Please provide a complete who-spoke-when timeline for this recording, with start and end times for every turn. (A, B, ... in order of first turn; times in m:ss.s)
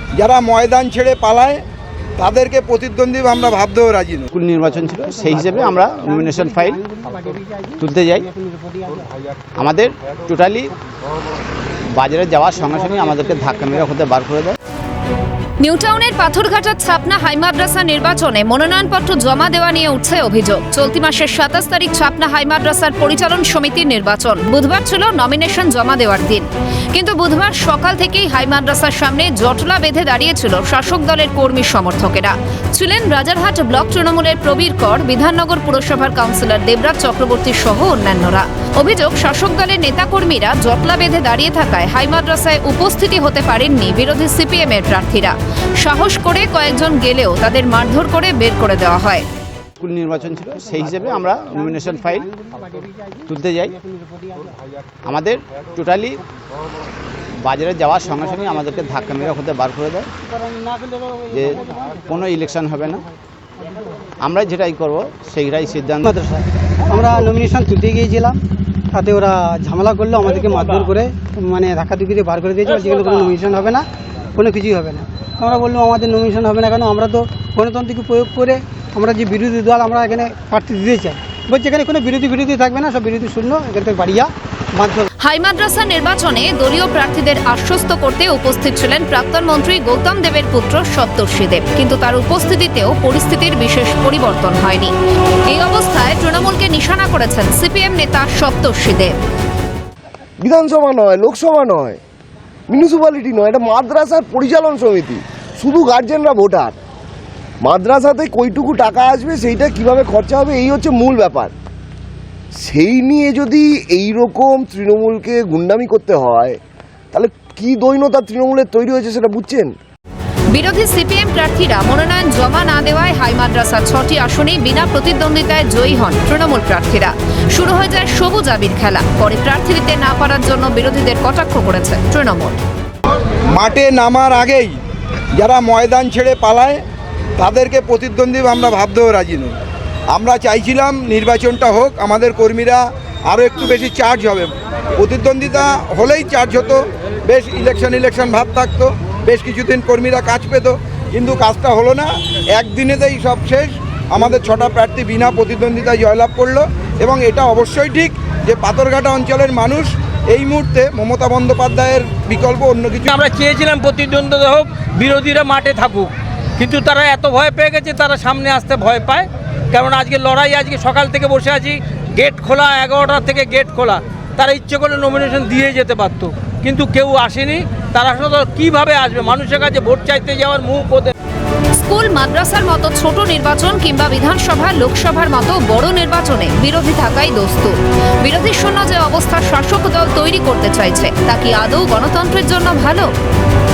0:00.2-0:01.6 A
0:02.2-0:04.2 A
0:04.3-0:06.8 B
0:06.0-0:09.0 C
0:07.8-0:08.3 B
0:09.6-0:10.7 B
0:11.9-0:14.6 B
0:15.6-0:49.2 D
0:49.8-0:52.3 B
0:51.7-0:54.6 C
0:53.3-0:53.8 B
0:55.0-0:56.2 B
0:57.4-1:00.1 B
1:00.2-1:02.1 C
1:01.3-1:03.0 B
1:04.2-1:06.1 B
1:06.0-1:25.0 C
1:25.2-1:34.9 D
1:35.5-1:39.1 D
1:40.4-1:42.0 E
1:42.7-1:46.8 E
1:47.6-1:51.5 E
1:52.5-1:56.6 E
1:57.1-1:59.7 E
2:00.5-2:12.6 D
2:13.5-2:14.8 A
2:15.4-2:16.8 A
2:17.4-2:19.6 A
2:20.1-2:43.2 A
2:43.0-3:01.1 F
3:01.8-3:13.1 D